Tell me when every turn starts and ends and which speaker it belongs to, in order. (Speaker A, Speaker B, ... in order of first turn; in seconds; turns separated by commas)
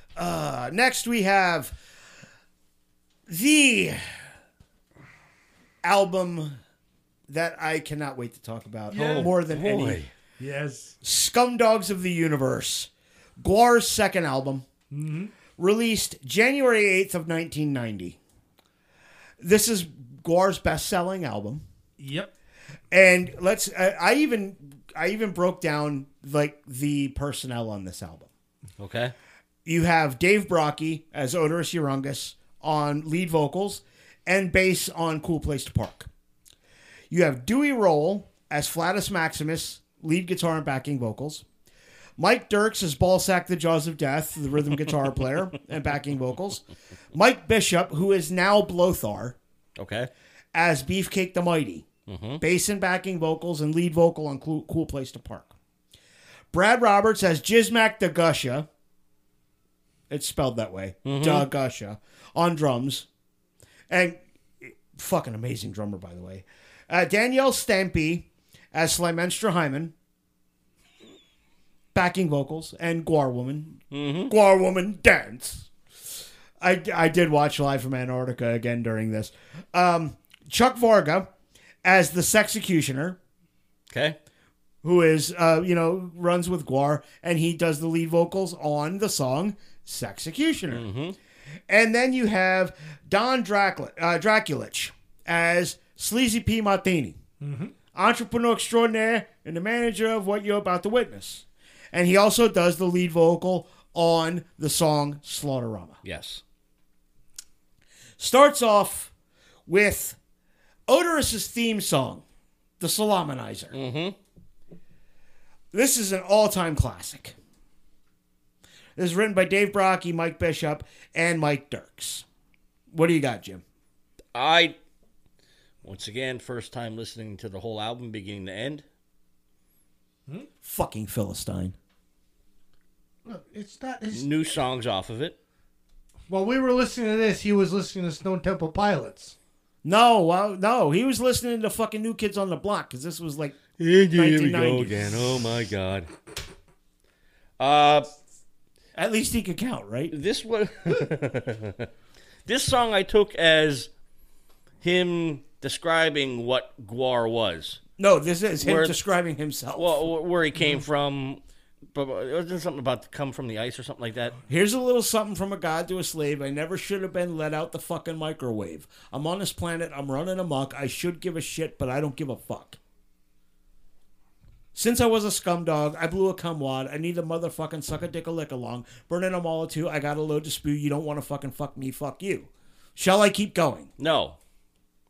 Speaker A: 0.2-1.8, Speaker A: 3.3-4.1, Speaker A: 5.8-6.6, Speaker A: 7.3-10.0, Speaker B: 8.9-9.3, Speaker C: 8.9-10.1, Speaker B: 10.4-11.0, Speaker A: 11.0-14.7, Speaker B: 14.9-15.3, Speaker A: 15.6-18.2, Speaker A: 19.4-21.6, Speaker B: 22.0-22.3, Speaker A: 22.9-28.3, Speaker C: 28.8-29.1, Speaker A: 29.6-36.1, Speaker A: 37.1-41.4, Speaker A: 42.2-49.4, Speaker C: 49.8-50.1, Speaker A: 50.5-51.9, Speaker C: 52.1-52.4, Speaker A: 52.4-55.5, Speaker A: 56.5-58.7, Speaker A: 60.1-63.1, Speaker C: 61.0-61.5, Speaker A: 63.9-69.9, Speaker A: 71.9-75.7, Speaker C: 73.9-74.3, Speaker A: 76.6-81.3, Speaker A: 81.8-83.2, Speaker C: 83.9-84.2, Speaker A: 84.8-90.8, Speaker C: 90.7-91.2, Speaker A: 91.7-97.2, Speaker B: 97.4-97.7, Speaker A: 97.9-106.0, Speaker C: 106.0-106.4, Speaker A: 108.2-109.1, Speaker A: 109.7-110.2, Speaker A: 110.9-112.2, Speaker A: 112.8-113.8, Speaker C: 113.7-114.2, Speaker A: 115.7-117.3, Speaker A: 119.0-122.2, Speaker A: 122.9-123.6, Speaker C: 124.3-124.8, Speaker C: 125.8-128.8, Speaker A: 130.6-131.8, Speaker B: 133.3-134.3, Speaker C: 134.1-135.4, Speaker B: 136.3-139.3, Speaker A: 139.8-145.1, Speaker C: 143.8-146.1, Speaker C: 147.6-148.1, Speaker A: 148.9-150.1, Speaker C: 150.1-151.9, Speaker C: 152.5-153.9, Speaker C: 154.8-157.8, Speaker A: 158.0-160.1, Speaker C: 158.6-159.0, Speaker C: 159.8-161.4, Speaker C: 161.9-164.4, Speaker A: 164.5-172.8, Speaker A: 174.8-183.9, Speaker C: 184.0-184.4